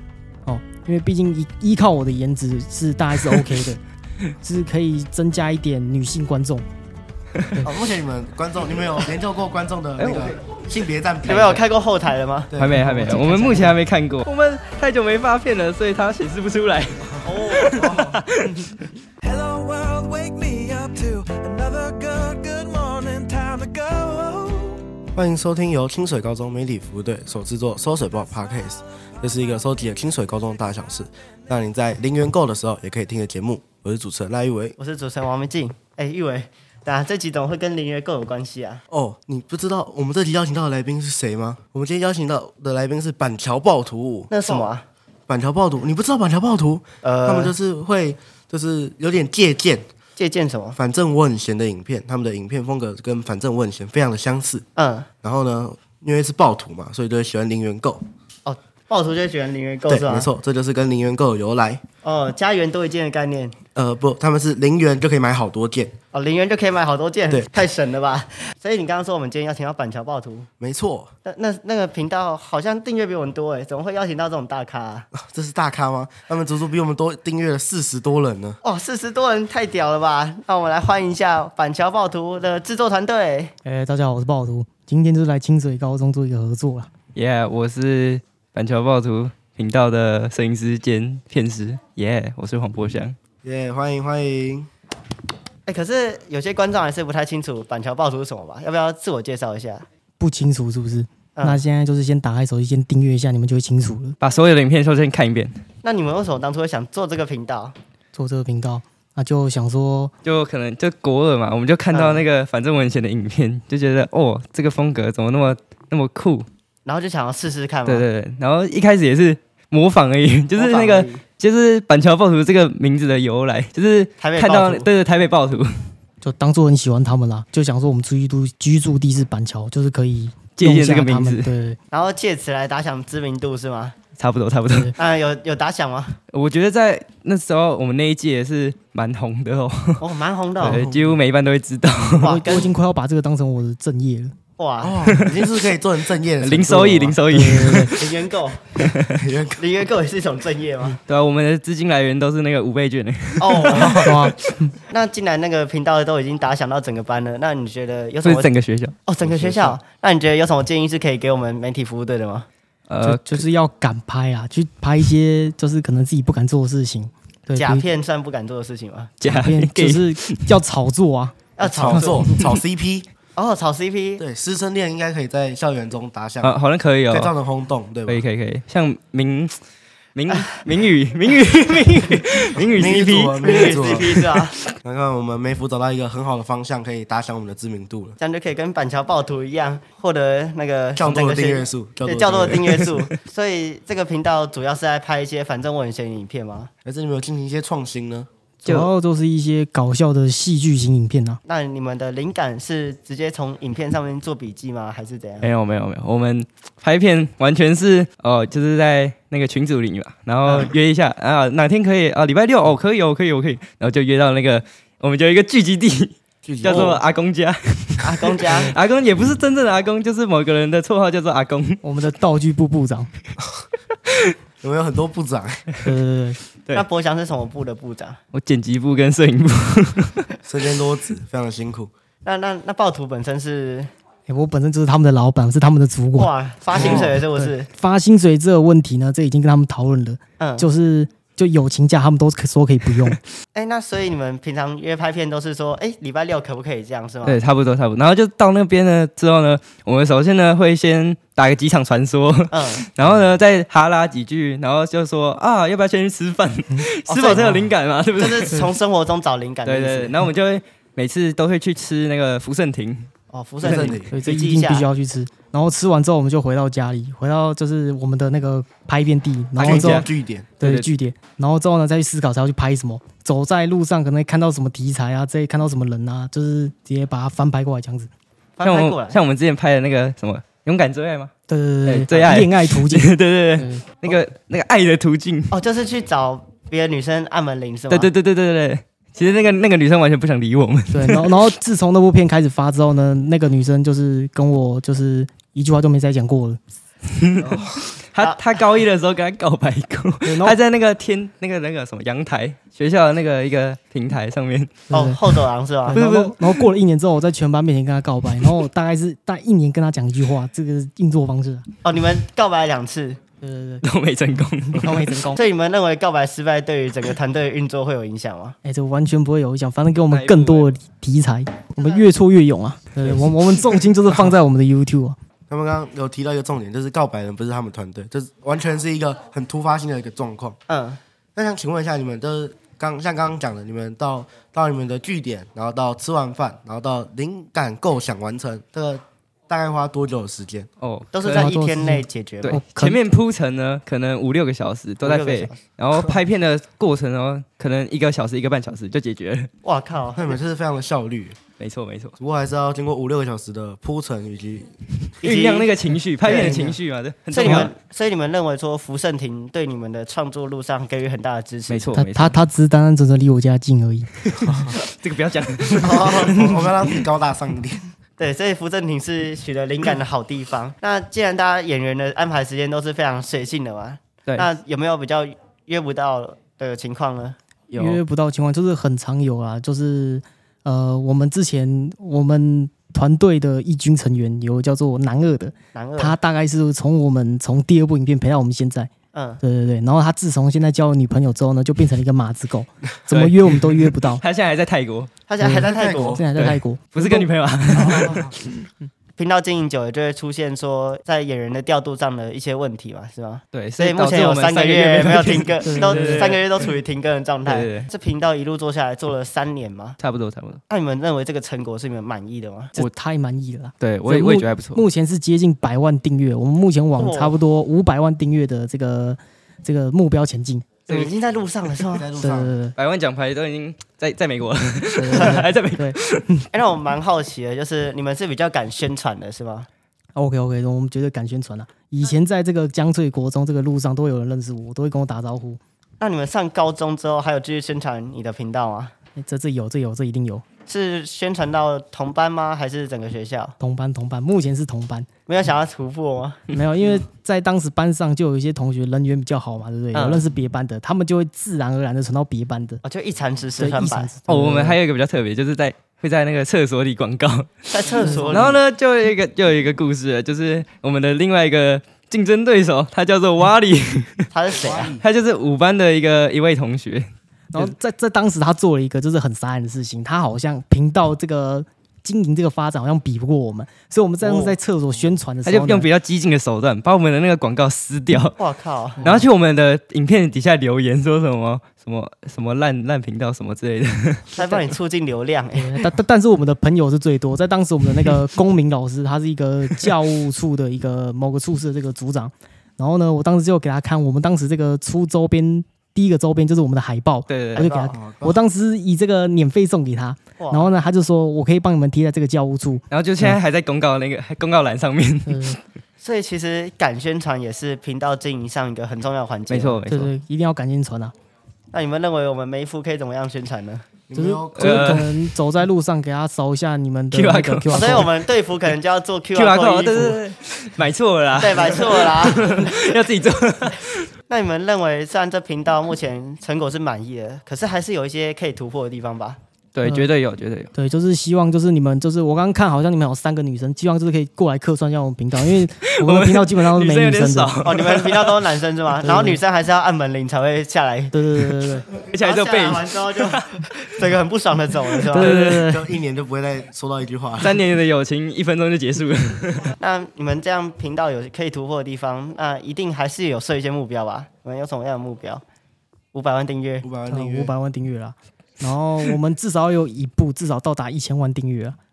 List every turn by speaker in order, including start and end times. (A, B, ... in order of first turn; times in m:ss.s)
0:00.4-0:03.8 A
0:04.4-0:06.6 A
0:07.6-0:11.6 B
0:10.0-0:10.4 C
0:11.2-0:12.5 D
0:12.5-0:12.8 B
0:12.5-0:18.9 C
0:12.7-0:13.7 A
0:17.2-0:18.0 D
0:19.2-0:24.8 E
0:25.1-0:34.8 B
0:34.8-0:38.8 D
0:38.9-0:44.7 B
0:44.3-0:44.8 D
0:45.3-0:49.8 B
0:47.0-0:47.5 D
0:50.2-0:50.8 D
0:50.8-0:54.6 B
0:54.8-0:55.1 D
0:55.2-0:58.0 B
0:58.4-1:00.3 D
0:59.9-1:01.8 B
1:02.0-1:03.6 D
1:03.7-1:05.9 B
1:06.1-1:10.5 D
1:10.6-1:11.1 B
1:11.2-1:15.1 D
1:15.1-1:18.6 B
1:18.6-1:23.5 D
1:23.6-1:26.9 A
1:27.1-1:33.2 C
1:33.4-1:34.7 B
1:35.7-1:39.8 D
1:40.2-1:44.2 A
1:41.4-1:41.6 D
1:44.2-1:45.5 C
1:45.8-1:47.7 D
1:48.1-1:50.1 A
1:50.2-1:56.4 C
1:51.9-1:52.2 D
1:56.8-1:58.0 D
1:57.8-2:05.7 C
2:00.6-2:01.2 D
2:04.2-2:04.9 D
2:06.2-2:11.8 A
2:10.6-2:11.5 C
2:11.9-2:14.0 D
2:14.2-2:14.9 C
2:15.0-2:16.2 D
2:16.3-2:20.0 C
2:20.0-2:20.8 D
2:20.6-2:22.4 C
2:20.6-2:21.2 B
2:22.2-2:22.7 D
2:22.2-2:24.4 A
2:24.6-2:25.0 D
2:24.8-2:27.2 B
2:25.1-2:25.4 C
2:26.4-2:28.1 C
2:27.3-2:27.9 A
2:27.9-2:28.8 D
2:28.8-2:29.2 C
2:29.1-2:29.6 B
2:29.6-2:31.0 D
2:31.1-2:34.2 C
2:33.4-2:34.2 D
2:33.7-2:34.2 B
2:34.0-2:34.4 A
2:34.9-2:38.5 D
2:38.2-2:38.9 C
2:39.0-2:42.5 D
2:39.2-2:39.8 B
2:42.9-2:43.4 C
2:43.0-2:47.8 A
2:47.6-2:49.1 D
2:49.2-2:50.6 C
2:49.2-2:52.3 A
2:51.6-2:52.3 D
2:51.6-2:53.1 B
2:53.4-2:54.2 D
2:54.2-2:56.5 B
2:56.4-2:57.3 C
2:57.1-2:58.2 B
2:58.1-2:59.6 C
3:00.2-3:04.4 C
3:02.7-3:04.2 B
3:03.4-3:04.6 D
3:04.8-3:08.2 B
3:08.2-3:16.7 D
3:11.0-3:12.8 B
3:16.8-3:18.3 B
3:18.6-3:18.9 C
3:18.6-3:21.4 A
3:21.4-3:25.5 D
3:25.4-3:41.8 C
3:30.4-3:30.7 D
3:36.4-3:37.0 B
3:36.6-3:37.0 D
3:38.0-3:38.7 D
3:41.8-3:43.1 A
3:44.6-3:45.6 B
3:45.8-3:46.4 A
3:46.7-3:48.2 D
3:48.3-3:50.3 C
3:50.4-3:51.9 B
3:52.2-3:53.9 D
3:54.3-4:03.2 A
3:56.1-3:57.7 D
3:56.8-3:57.1 B
4:00.4-4:00.7 D
4:03.5-4:07.4 D
4:07.2-4:18.7 C
4:12.5-4:12.8 D
4:17.1-4:20.2 D
4:19.6-4:23.1 C
4:23.3-4:24.9 D
4:23.6-4:24.1 B
4:24.1-4:30.1 A
4:29.6-4:30.5 B
4:29.6-4:30.0 C
4:30.6-4:38.1 A
4:30.6-4:30.9 C
4:38.6-4:39.2 D
4:38.6-4:41.3 C
4:41.5-4:43.9 A
4:41.8-4:45.5 C
4:45.5-4:48.1 D
4:47.9-4:51.5 C
4:50.9-4:56.6 A
4:57.1-5:04.7 C
4:57.4-4:57.8 B
5:00.2-5:00.6 A
5:04.9-5:05.2 A
5:04.9-5:06.0 D
5:05.8-5:11.7 A
5:05.9-5:06.6 C
5:11.8-5:13.2 D
5:13.4-5:13.8 A
5:13.8-5:15.2 C
5:14.7-5:15.4 A
5:15.3-5:18.6 D
5:18.6-5:25.2 A
5:20.1-5:20.7 C
5:21.8-5:22.0 D
5:23.0-5:23.6 C
5:25.5-5:30.6 B
5:30.7-5:31.0 D
5:31.3-5:40.7 B
5:40.8-5:41.5 C
5:41.1-5:42.6 D
5:41.3-5:43.0 A
5:42.4-5:49.5 C
5:45.0-5:45.6 D
5:49.6-5:50.4 D
5:50.2-5:51.4 B
5:51.6-5:52.1 C
5:52.2-5:54.7 B
5:55.2-5:57.7 C
5:55.2-5:55.7 D
5:56.2-5:56.8 D
5:57.3-6:01.9 D
5:57.4-5:57.7 A
6:01.7-6:02.4 C
6:01.9-6:04.1 A
6:04.4-6:06.1 C
6:04.4-6:04.7 B
6:05.8-6:06.6 D
6:05.8-6:07.8 B
6:08.2-6:17.4 D
6:17.7-6:18.0 C
6:17.8-6:34.2 A
6:25.7-6:26.2 D
6:29.1-6:29.4 D
6:33.1-6:35.1 C
6:35.3-6:36.2 D
6:35.4-6:38.1 A
6:35.5-6:36.2 B
6:36.4-6:38.3 C
6:37.8-6:38.3 D
6:39.2-6:50.0 D
6:43.5-6:46.7 C
6:45.6-6:46.3 A
6:47.4-6:47.9 C
6:50.0-6:50.6 C
6:50.7-6:52.7 D
6:52.7-7:00.7 A
6:53.8-6:54.8 C
6:57.0-6:57.4 D
7:00.9-7:02.0 D
7:01.9-7:02.6 B
7:02.2-7:02.8 A
7:02.8-7:06.4 C
7:04.9-7:06.4 A
7:05.1-7:05.4 D
7:06.5-7:09.7 D
7:10.2-7:15.6 A
7:16.0-7:18.9 D
7:19.2-7:20.4 A
7:20.7-7:23.5 D
7:23.6-7:25.1 A
7:25.3-7:26.4 D
7:26.5-7:32.8 A
7:29.9-7:30.3 D
7:32.8-7:34.1 D
7:33.6-7:34.8 A
7:34.3-7:44.3 C
7:37.7-7:38.6 D
7:38.0-7:38.5 A
7:44.3-7:44.9 D
7:44.5-7:45.0 B
7:45.0-7:47.7 C
7:47.5-7:55.9 A
7:54.2-7:54.6 D
7:55.4-7:58.4 C
7:58.4-7:59.0 D
7:59.0-8:04.4 C
8:04.4-8:05.8 D
8:05.5-8:23.4 A
8:17.3-8:17.7 C
8:17.5-8:18.0 D
8:17.9-8:18.4 B
8:20.4-8:20.7 D
8:22.9-8:25.6 C
8:25.3-8:25.6 A
8:26.0-8:29.8 D
8:29.5-8:30.1 C
8:29.9-8:31.1 A
8:31.7-8:33.9 D
8:34.1-8:35.1 B
8:34.1-8:38.1 A
8:34.6-8:35.1 C
8:37.1-8:38.1 C
8:37.7-8:40.2 D
8:39.3-8:44.1 C
8:41.4-8:42.9 D
8:44.3-8:49.4 D
8:49.7-8:50.7 C
8:50.7-8:57.5 A
8:55.5-8:58.4 C
8:57.6-9:01.1 D
8:59.0-8:59.4 A
9:01.1-9:01.8 A
9:02.1-9:03.7 C
9:02.1-9:05.4 D
9:05.1-9:05.6 C
9:05.1-9:05.8 A
9:05.3-9:07.6 B
9:07.4-9:09.7 C
9:09.8-9:15.4 D
9:16.1-9:16.8 D
9:16.8-9:17.5 B
9:17.1-9:21.8 A